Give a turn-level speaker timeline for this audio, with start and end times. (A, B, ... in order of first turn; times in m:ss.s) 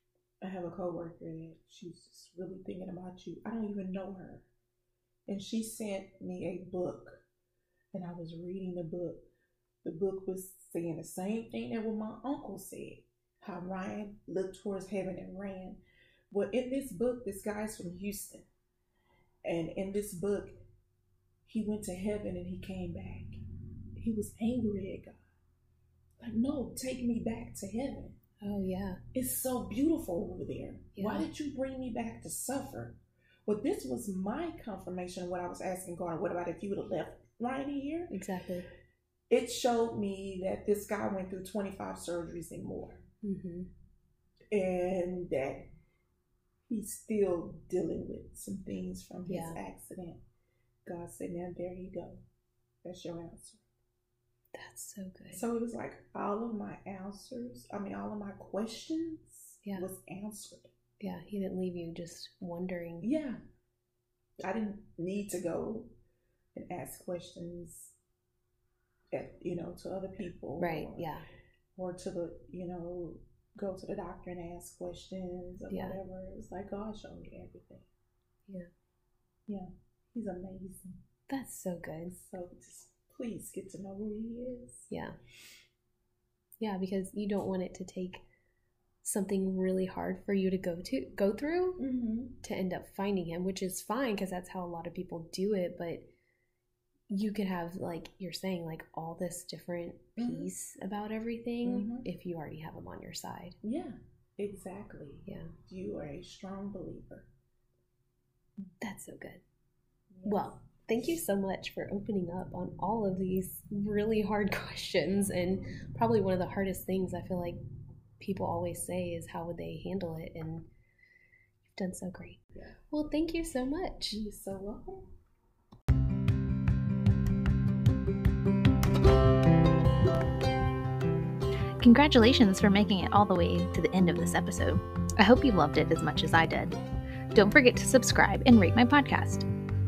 0:00.4-0:04.5 A
0:05.3-0:07.2 A
0:07.9-0:09.2 A
0:09.8-0:15.8 A
0:16.3-0:18.5 A
0:19.4-0:20.6 A
0:21.4-0:23.4 A
0:24.0-0:25.2 A
0:26.2-0:28.2 A
0:28.4-0:29.0 B
0:29.1-0:38.1 A
0:31.0-0:31.3 B
0:38.1-0:38.7 B
0:39.3-0:43.0 A
0:43.2-0:43.7 B
0:44.5-0:45.7 A
0:46.7-0:50.2 A
0:49.3-0:49.6 B
0:50.8-0:52.2 A
0:52.8-0:53.6 A
0:54.5-0:55.4 B
0:55.3-1:00.7 A
1:01.0-1:03.1 B
1:03.0-1:03.4 A
1:04.4-1:05.9 A
1:06.5-1:08.0 A
1:09.1-1:11.1 A
1:10.6-1:11.3 B
1:11.8-1:17.9 A
1:15.7-1:16.0 B
1:19.5-1:21.0 A
1:21.3-1:22.2 B
1:22.1-1:24.9 A
1:24.9-1:25.2 B
1:26.6-1:28.2 B
1:29.0-1:31.8 B
1:31.8-1:32.4 A
1:32.4-1:36.0 B
1:37.1-1:43.6 B
1:40.2-1:40.5 A
1:41.6-1:42.1 A
1:43.6-1:47.3 A
1:45.2-1:45.5 B
1:48.8-1:49.4 B
1:50.1-1:50.5 A
1:50.2-1:57.6 B
1:58.2-2:00.7 B
2:01.7-2:02.4 B
2:02.9-2:04.2 B
2:04.1-2:05.1 A
2:11.8-2:16.8 C
2:17.3-2:19.5 C